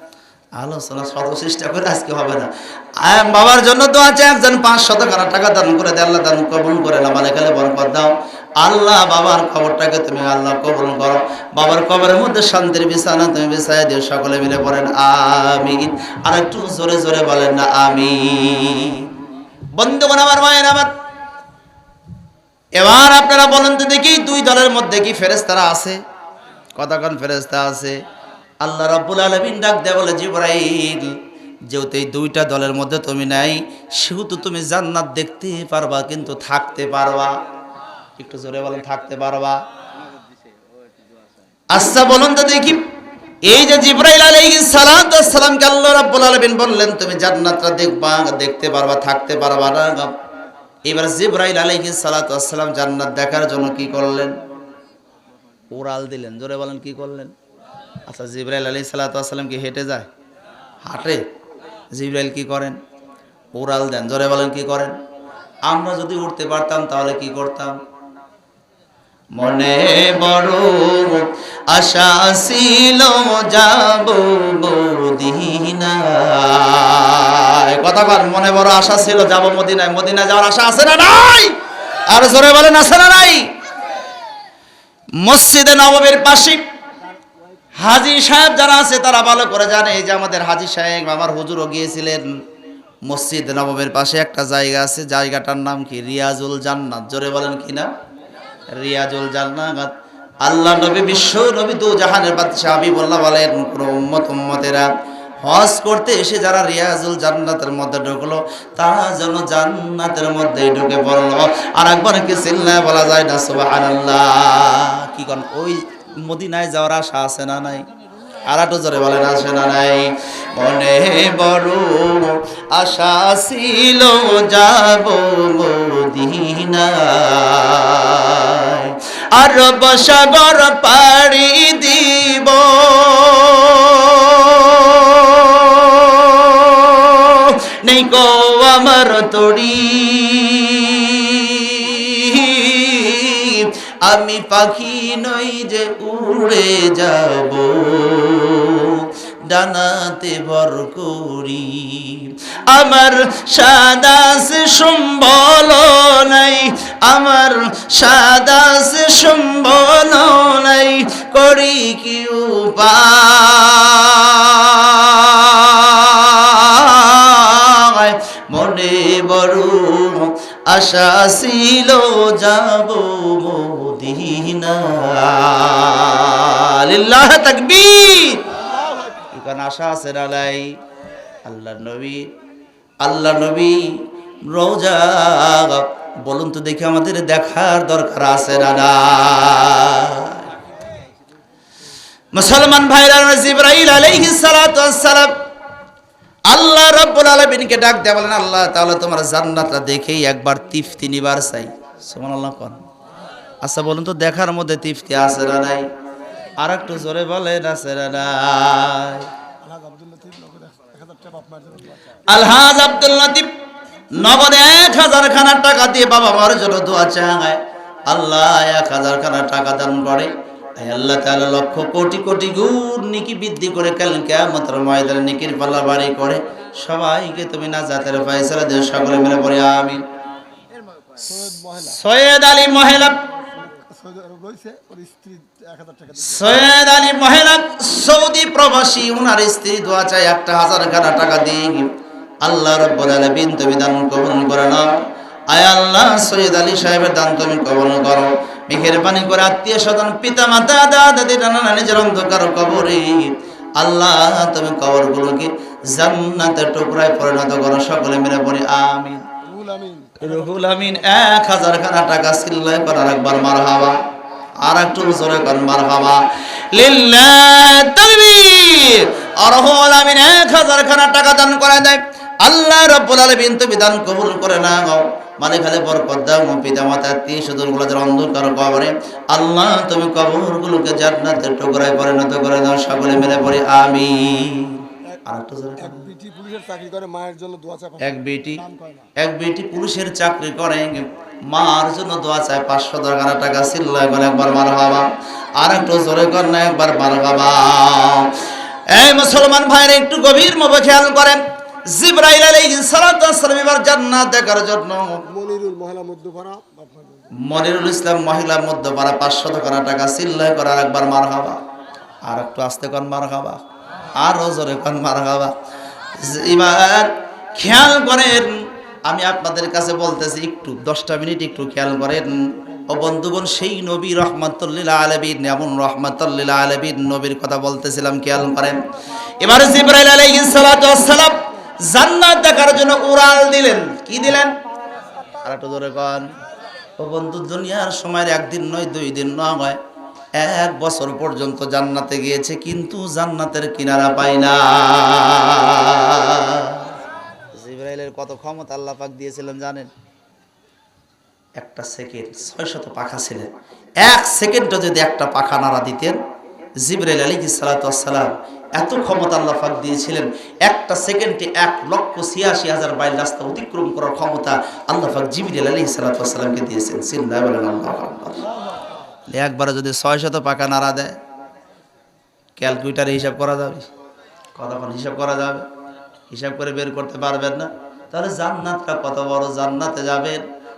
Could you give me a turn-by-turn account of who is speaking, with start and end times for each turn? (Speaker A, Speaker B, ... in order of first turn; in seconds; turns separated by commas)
Speaker A: 0.6-19.1, Speaker A: 19.7-20.9, Speaker A: 22.8-26.0, Speaker A: 26.8-28.0, Speaker A: 28.6-37.4, Speaker A: 38.2-39.6, Speaker A: 41.7-42.8, Speaker A: 43.4-50.1, Speaker A: 50.9-54.3, Speaker A: 55.7-57.3, Speaker A: 58.0-60.1, Speaker A: 60.8-61.2, Speaker A: 61.9-62.8, Speaker A: 63.5-65.0, Speaker A: 65.7-67.8, Speaker A: 69.3-81.5, Speaker A: 82.1-83.5, Speaker A: 85.2-86.6, Speaker A: 87.8-92.3, Speaker A: 93.0-97.9, Speaker A: 98.7-104.9, Speaker A: 105.4-117.9, Speaker A: 118.5-178.5, Speaker A: 179.3-180.8, Speaker A: 181.4-182.3, Speaker A: 183.0-190.5, Speaker A: 192.3-195.3, Speaker A: 196.5-202.8, Speaker A: 203.6-205.8, Speaker A: 206.6-209.3, Speaker B: 209.6-211.9, Speaker A: 212.3-213.5, Speaker A: 214.1-230.0, Speaker B: 231.1-232.0, Speaker A: 231.7-233.2, Speaker B: 233.5-236.3, Speaker A: 236.2-241.9, Speaker A: 242.4-244.9, Speaker A: 245.5-259.2, Speaker B: 259.4-260.3, Speaker A: 260.2-264.0, Speaker A: 264.6-286.1, Speaker B: 285.9-288.1, Speaker A: 288.0-288.6, Speaker B: 288.6-289.1, Speaker A: 289.1-305.2, Speaker B: 305.3-307.3, Speaker A: 307.4-311.6, Speaker A: 312.2-313.6, Speaker A: 314.1-315.5, Speaker A: 316.1-328.8, Speaker A: 329.4-334.6, Speaker A: 335.4-336.3, Speaker A: 337.0-339.8, Speaker A: 340.3-347.0, Speaker A: 347.6-349.9, Speaker A: 351.6-353.5, Speaker A: 354.0-356.2, Speaker A: 356.8-368.4, Speaker A: 369.3-371.2, Speaker A: 372.6-373.9, Speaker A: 374.5-375.7, Speaker A: 376.3-380.4